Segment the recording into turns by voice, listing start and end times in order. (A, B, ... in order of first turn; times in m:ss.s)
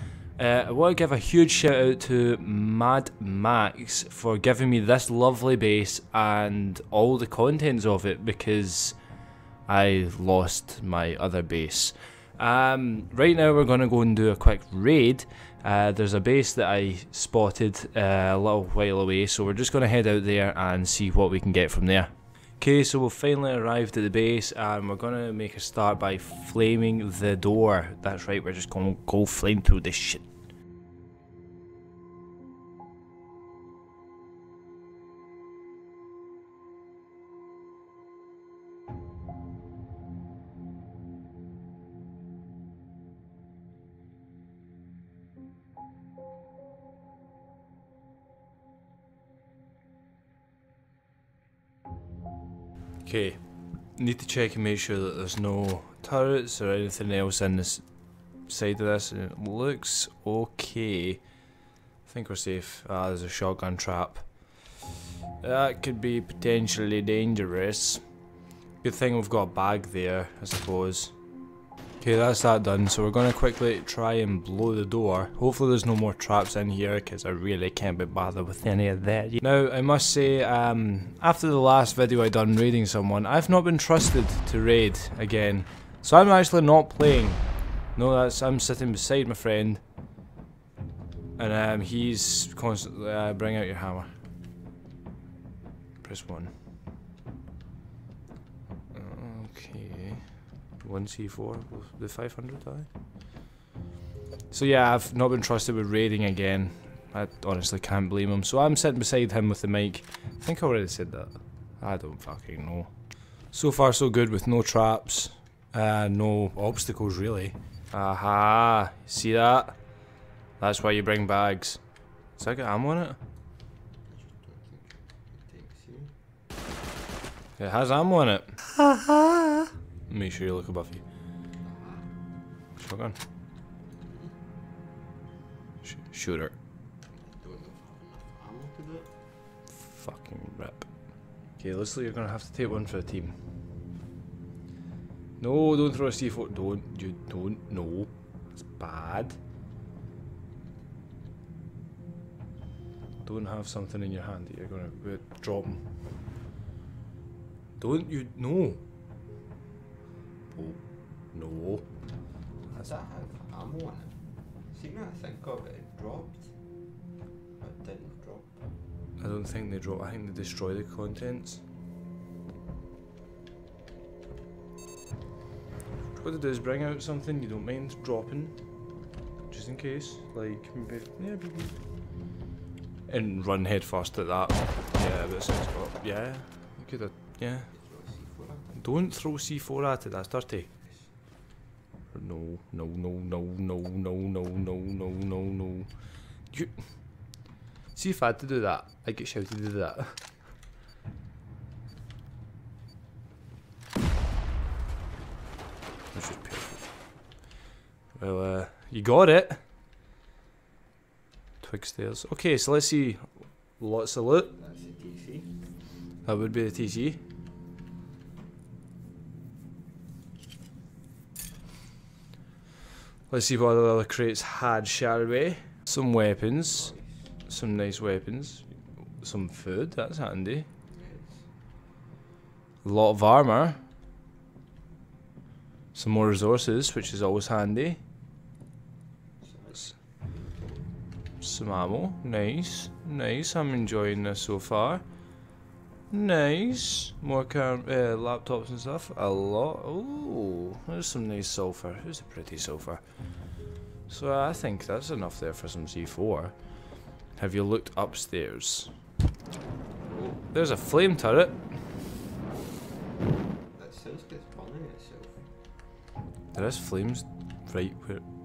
0:00.4-0:09.0 A
0:09.7-0:30.3 A
0:53.0-0:53.4 A
0:53.9-1:01.2 A
1:02.0-1:04.7 A
1:05.4-1:08.0 A
1:08.8-1:11.2 A
1:12.0-1:27.4 A
1:28.0-1:29.8 A
1:31.4-1:34.1 A
1:36.0-1:36.5 A
1:38.9-1:42.9 A
1:44.5-1:52.9 A
1:53.4-1:59.8 A
2:00.6-2:01.8 A
2:02.4-2:03.2 A
2:04.1-2:06.1 B
2:07.6-2:11.0 A
2:11.6-2:12.1 B
2:12.8-2:13.2 A
2:14.0-2:14.3 B
2:15.8-2:16.6 A
2:17.1-2:19.1 B
2:19.8-2:20.9 A
2:21.6-2:23.4 A
2:25.4-2:28.1 A
2:28.6-2:29.4 A
2:33.2-2:35.8 A
2:37.8-2:38.8 A
2:40.5-2:40.8 A
2:41.3-2:41.9 A
2:42.7-2:44.2 B
2:44.7-2:46.5 B
2:47.6-2:48.6 B
2:49.2-2:51.6 A
2:56.2-2:58.6 A
2:59.5-3:01.8 A
3:03.1-3:07.7 A
3:07.7-3:08.8 B
3:08.8-3:10.7 A
3:12.1-3:16.0 A
3:16.5-3:17.2 A
3:17.9-3:20.2 A
3:26.1-3:26.9 A
3:28.2-3:29.6 A
3:31.6-3:34.6 A
3:34.6-3:35.5 B
3:36.2-3:37.2 A
3:43.3-3:46.9 A
3:46.7-3:47.3 B
3:47.5-3:48.7 A
3:49.2-3:50.7 A
3:50.9-3:51.4 B
3:52.8-3:53.8 A
3:55.9-3:58.0 A
3:59.4-4:00.8 B
4:01.4-4:05.0 A
4:06.1-4:13.0 A
4:14.1-4:16.6 A
4:17.4-4:18.9 A
4:20.1-4:20.4 B
4:20.5-4:21.9 A
4:23.7-4:25.5 B
4:26.5-4:28.2 A